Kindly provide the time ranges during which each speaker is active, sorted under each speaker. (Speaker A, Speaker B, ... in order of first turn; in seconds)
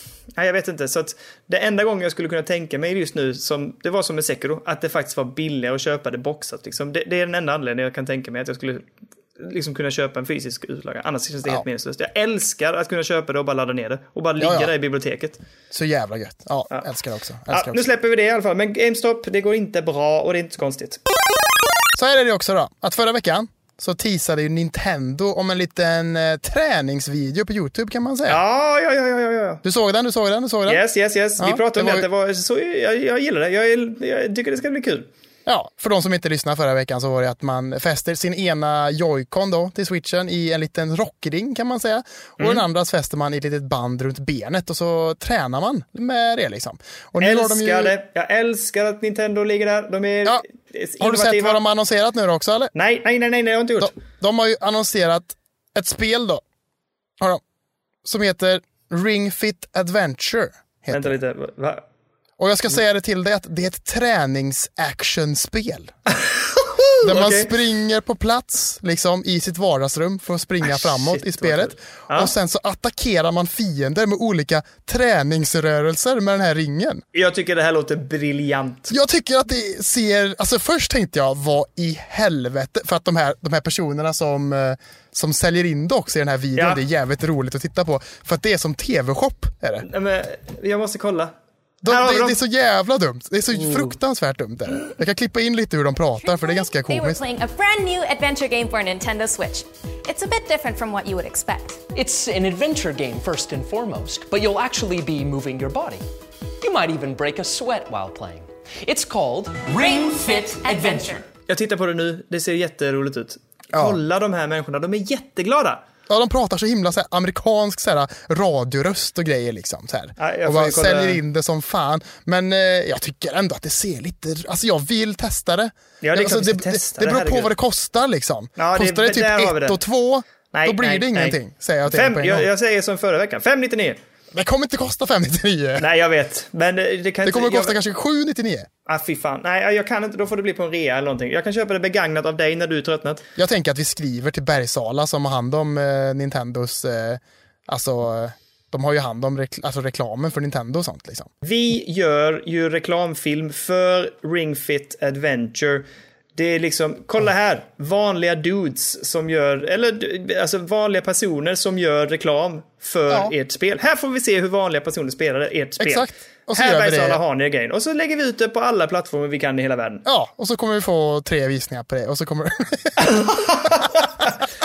Speaker A: 0.3-15.4, 17.5-21.0, 28.3-29.6, 30.7-35.1, 42.4-42.6, 47.2-51.6, 52.7-53.9, 60.9-61.8, 66.1-67.5, 70.6-72.3, 77.1-78.9, 86.6-86.8, 89.8-91.3, 91.9-92.4, 93.6-93.9, 111.5-115.8, 120.2-121.2, 126.0-127.5, 128.6-129.8, 130.5-134.0, 135.8-137.8, 138.9-143.2, 151.4-155.8, 156.4-170.1, 173.0-174.3
Speaker B: 14.4-14.7, 15.7-17.9, 21.9-28.4, 29.6-30.8, 31.4-32.1, 35.5-47.9, 51.0-52.7, 53.8-56.4, 58.0-61.1, 62.4-65.9, 67.0-77.0, 78.9-89.9, 91.8-97.2, 113.7-114.0, 116.1-132.5, 134.3-135.8, 137.2-138.7, 143.4-151.3, 165.8-167.2, 170.1-173.7
Speaker C: 96.4-101.8, 109.8-111.2
Speaker D: 102.0-106.0, 106.6-111.3